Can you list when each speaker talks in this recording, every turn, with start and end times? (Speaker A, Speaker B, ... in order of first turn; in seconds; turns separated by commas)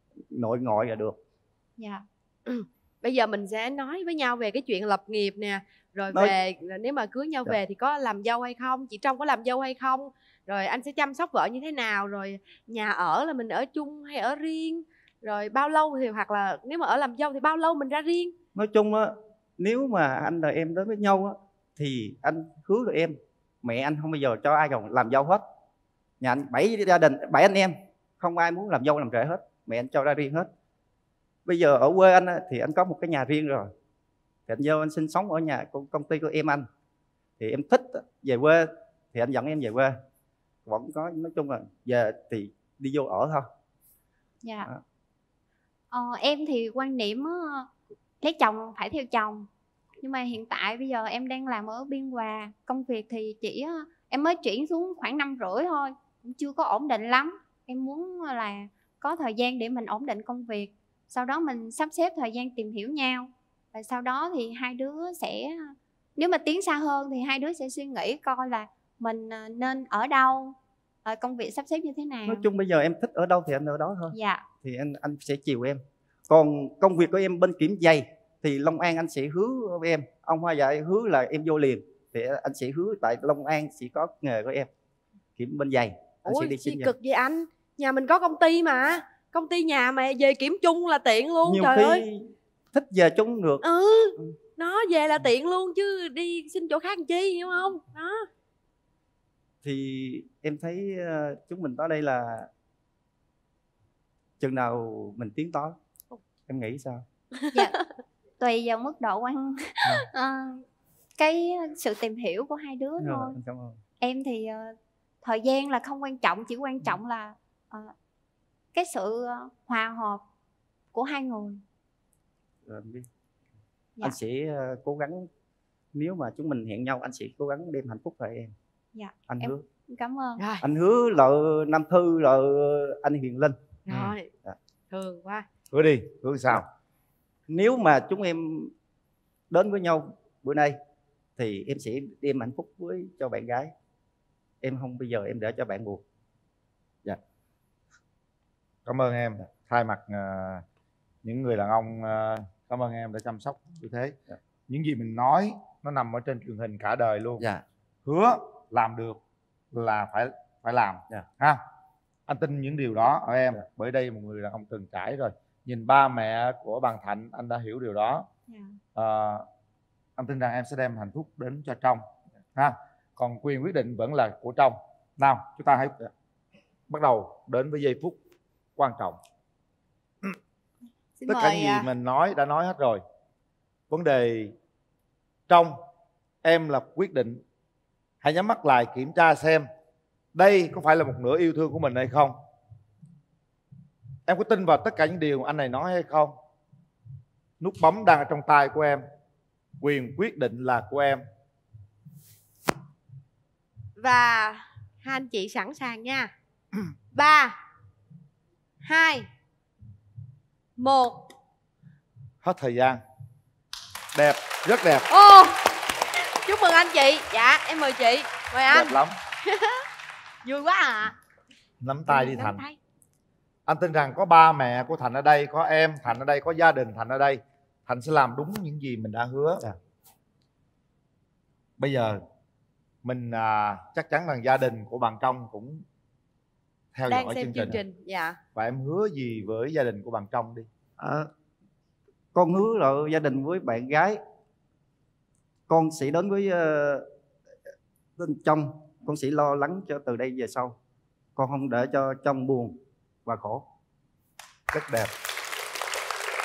Speaker A: 0.3-1.2, Speaker B: 2.5-18.3, Speaker A: 6.1-6.4, Speaker A: 18.5-25.4, Speaker A: 26.2-30.5, Speaker A: 31.4-33.7, Speaker A: 34.5-36.7, Speaker A: 37.4-40.0, Speaker A: 40.6-43.5, Speaker C: 44.4-44.7, Speaker C: 45.9-47.7, Speaker C: 48.2-49.5, Speaker C: 50.0-72.4, Speaker A: 72.2-84.7, Speaker C: 74.1-74.5, Speaker A: 85.3-86.9, Speaker B: 86.3-92.0, Speaker A: 91.4-93.7, Speaker B: 93.6-98.2, Speaker A: 99.6-102.5, Speaker A: 104.4-105.8, Speaker A: 106.5-107.0, Speaker C: 108.4-110.6, Speaker C: 111.2-113.3, Speaker A: 113.0-113.8, Speaker C: 114.0-117.9, Speaker C: 118.7-120.2, Speaker C: 120.9-121.6, Speaker A: 122.7-123.0, Speaker A: 124.0-125.3, Speaker A: 125.9-128.5, Speaker C: 128.9-130.5, Speaker A: 129.3-129.7, Speaker A: 130.6-134.6, Speaker B: 133.9-134.3, Speaker B: 134.9-135.4, Speaker D: 135.7-136.6, Speaker A: 137.5-138.7, Speaker A: 139.5-140.8, Speaker A: 141.4-143.7, Speaker A: 144.6-146.0, Speaker D: 148.8-150.6, Speaker D: 151.2-154.2, Speaker D: 154.7-157.5, Speaker A: 157.4-157.6, Speaker D: 158.0-159.2, Speaker D: 159.7-161.6, Speaker D: 162.3-168.3, Speaker C: 168.5-168.8, Speaker D: 168.9-169.4, Speaker D: 170.2-176.0, Speaker D: 176.9-178.2, Speaker D: 178.8-179.2, Speaker B: 181.2-181.9, Speaker D: 181.3-183.0, Speaker D: 183.9-184.5, Speaker D: 185.5-185.8, Speaker D: 186.4-187.4, Speaker D: 188.2-189.7, Speaker D: 190.3-192.4, Speaker D: 194.3-196.3, Speaker D: 197.6-199.0, Speaker D: 199.8-201.2, Speaker B: 204.0-206.3, Speaker B: 207.1-207.5, Speaker B: 208.8-209.2, Speaker B: 210.8-211.2, Speaker D: 212.4-213.0, Speaker D: 214.1-215.1, Speaker B: 215.1-215.6, Speaker B: 216.4-219.8, Speaker D: 218.7-219.2, Speaker B: 220.4-221.2, Speaker D: 221.8-222.6, Speaker B: 222.1-222.8, Speaker D: 223.7-229.7, Speaker D: 231.8-232.2, Speaker D: 233.0-235.8, Speaker D: 236.9-237.8, Speaker B: 237.1-238.4, Speaker D: 238.5-241.3, Speaker A: 242.3-244.2, Speaker A: 245.7-247.1, Speaker A: 248.2-250.8, Speaker A: 251.3-253.6, Speaker D: 254.7-255.1